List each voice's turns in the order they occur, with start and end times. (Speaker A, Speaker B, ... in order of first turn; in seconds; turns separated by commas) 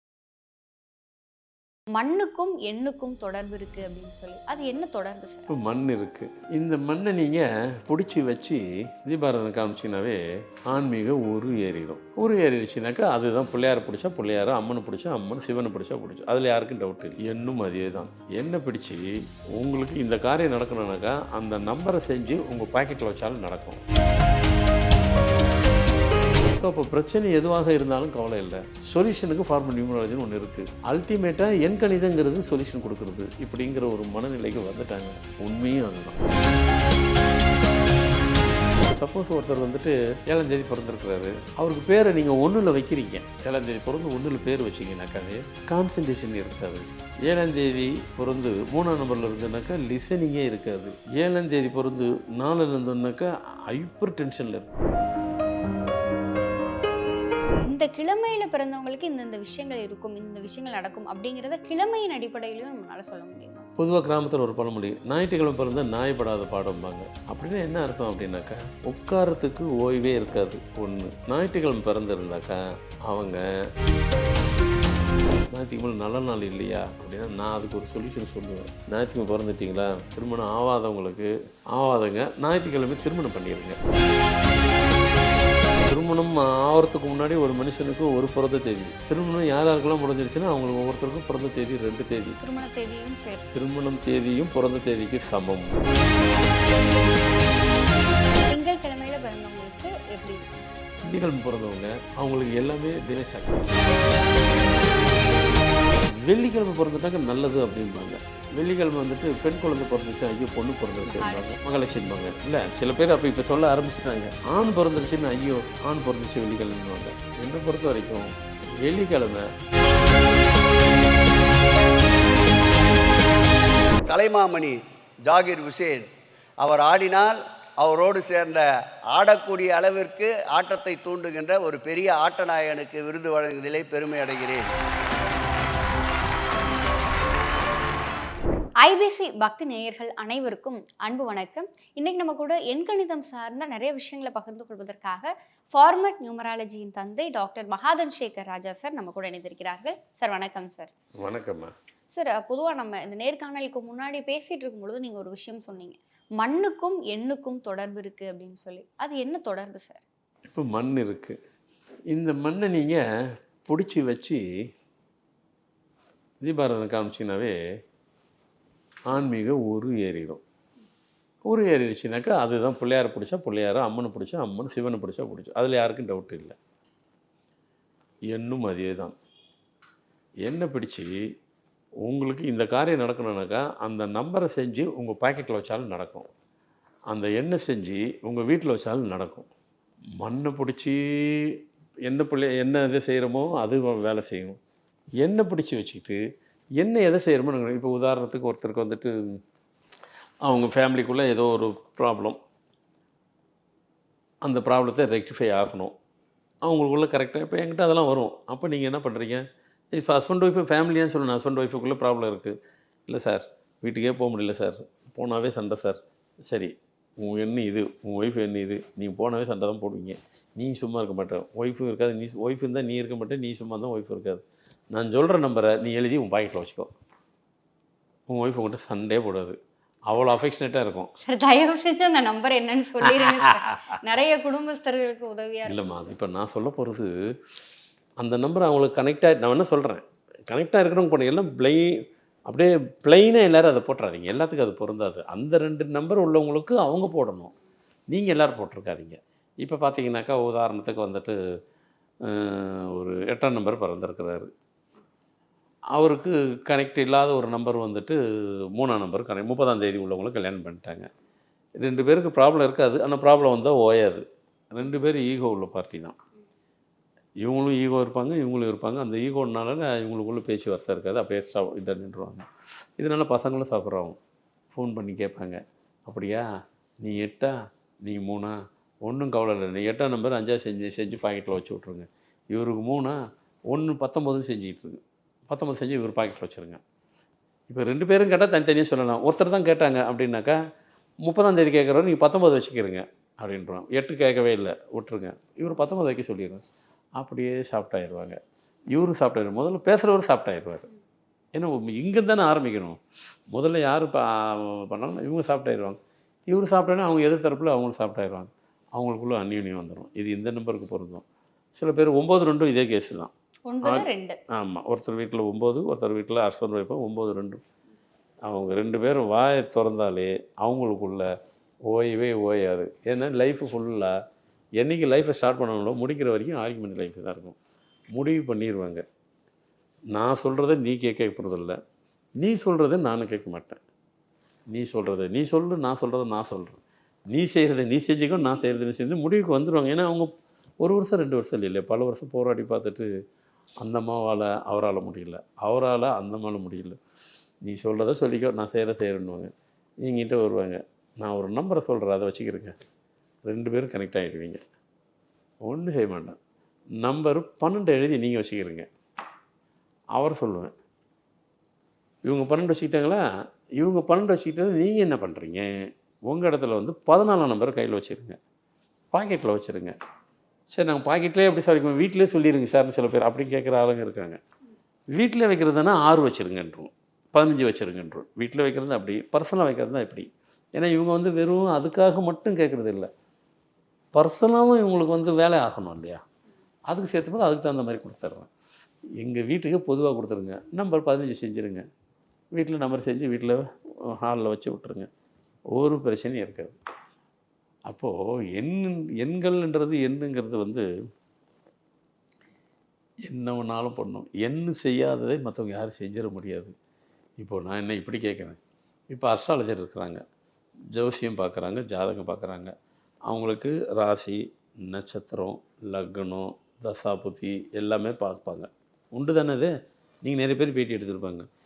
Speaker A: 1.9-5.5, Speaker B: 5.5-23.8, Speaker B: 26.4-36.2, Speaker B: 38.8-54.9, Speaker A: 57.6-63.7, Speaker B: 63.8-73.5, Speaker B: 75.5-83.8, Speaker B: 85.8-92.4, Speaker A: 92.4-93.5, Speaker B: 93.5-95.7, Speaker A: 98.3-100.7, Speaker B: 101.0-104.0, Speaker B: 106.0-119.5, Speaker A: 111.0-111.6, Speaker C: 124.1-134.7, Speaker A: 138.8-150.9, Speaker B: 151.2-151.7, Speaker A: 152.1-160.0, Speaker B: 160.5-161.4, Speaker B: 162.1-163.0, Speaker B: 163.7-164.4, Speaker B: 166.4-167.6, Speaker B: 169.1-170.4, Speaker B: 171.4-176.6, Speaker B: 178.3-179.1, Speaker B: 180.4-181.2, Speaker B: 182.0-186.3, Speaker B: 187.1-189.5, Speaker B: 190.2-194.6, Speaker B: 195.2-196.2, Speaker B: 196.8-199.4, Speaker B: 200.4-202.4, Speaker B: 204.4-205.9, Speaker B: 206.6-226.9, Speaker B: 228.3-229.6, Speaker B: 230.1-231.1, Speaker A: 231.2-236.1, Speaker B: 233.1-233.9, Speaker B: 235.7-237.1, Speaker B: 238.2-247.5, Speaker B: 248.1-251.3, Speaker B: 252.2-254.5, Speaker B: 255.9-261.1, Speaker B: 261.8-266.2, Speaker B: 267.4-274.2, Speaker B: 274.7-276.4, Speaker B: 277.0-283.2, Speaker B: 283.7-286.8, Speaker B: 287.7-290.6, Speaker B: 291.2-296.6, Speaker B: 297.2-298.4, Speaker B: 298.9-300.9, Speaker B: 301.5-303.0, Speaker B: 303.5-311.2, Speaker B: 311.8-313.3, Speaker A: 313.7-314.4, Speaker B: 313.8-317.6, Speaker B: 318.4-321.3, Speaker B: 321.9-324.1, Speaker B: 324.8-327.6, Speaker B: 328.1-329.0, Speaker B: 330.1-331.8, Speaker B: 332.4-333.8, Speaker B: 334.7-336.8, Speaker B: 337.3-340.3, Speaker B: 340.8-343.1, Speaker B: 343.8-347.0, Speaker B: 347.6-349.5, Speaker B: 350.0-352.7, Speaker B: 353.4-354.6, Speaker B: 355.6-356.4, Speaker B: 357.0-358.9, Speaker B: 360.1-360.7, Speaker B: 362.2-363.2, Speaker B: 363.8-368.4, Speaker B: 369.1-369.9, Speaker B: 370.7-374.4, Speaker B: 375.1-383.1, Speaker B: 384.1-386.2, Speaker B: 386.9-388.5, Speaker B: 389.2-391.9, Speaker B: 392.5-395.1, Speaker B: 395.7-396.8, Speaker B: 397.9-400.9, Speaker B: 403.3-406.7, Speaker B: 407.4-408.6, Speaker B: 409.1-410.2, Speaker B: 410.9-412.7, Speaker B: 413.3-421.5